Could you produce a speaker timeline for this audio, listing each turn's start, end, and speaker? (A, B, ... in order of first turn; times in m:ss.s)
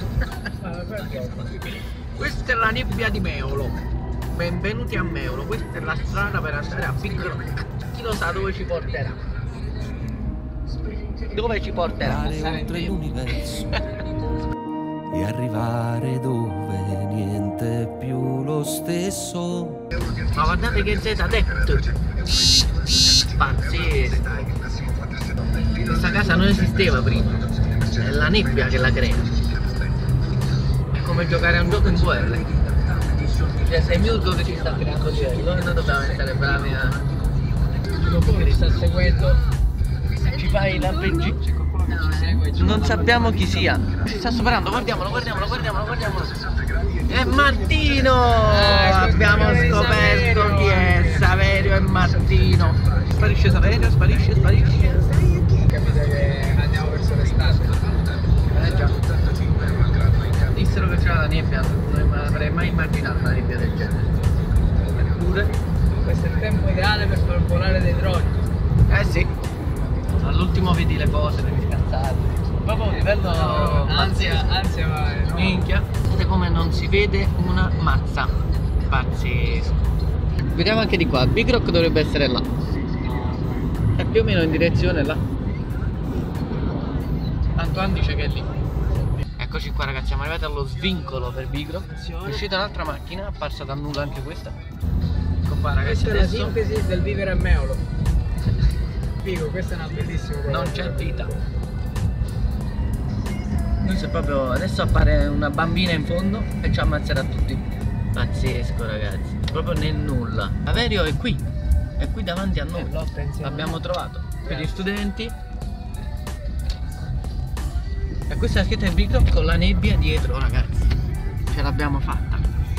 0:00.6-0:01.5 A
0:02.2-0:03.8 B
0:04.3-0:09.2 B
0:11.3-0:12.3 B
0:12.0-0:13.8 C
0:12.4-0:12.9 A
0:15.1-0:19.8 C
0:20.3-0:21.9 B
0:23.2-0:24.5 B
0:25.8-0:29.3 B
0:30.9-0:37.0 B
0:37.9-0:39.4 A
0:38.0-0:38.8 B
0:40.3-0:41.4 B
0:41.6-0:43.6 A
0:42.5-0:46.4 B
0:47.1-0:55.1 B
0:48.4-0:51.3 A
0:55.6-0:57.8 A
0:58.5-0:59.0 B
1:00.5-1:04.1 B
1:05.0-1:05.5 B
1:06.0-1:08.4 A
1:08.9-1:09.3 B
1:10.2-1:14.5 B
1:13.2-1:15.7 A
1:15.3-1:19.8 B
1:20.4-1:22.5 B
1:24.0-1:25.2 B
1:27.6-1:28.5 B
1:29.4-1:34.6 B
1:32.0-1:32.4 A
1:35.4-1:36.6 B
1:35.8-1:37.8 A
1:39.2-1:41.4 A
1:40.5-1:41.3 B
1:43.8-1:51.4 B
1:52.0-1:55.3 B
1:52.8-1:53.8 A
1:54.4-1:54.7 A
1:58.3-2:00.9 B
2:01.5-2:02.5 B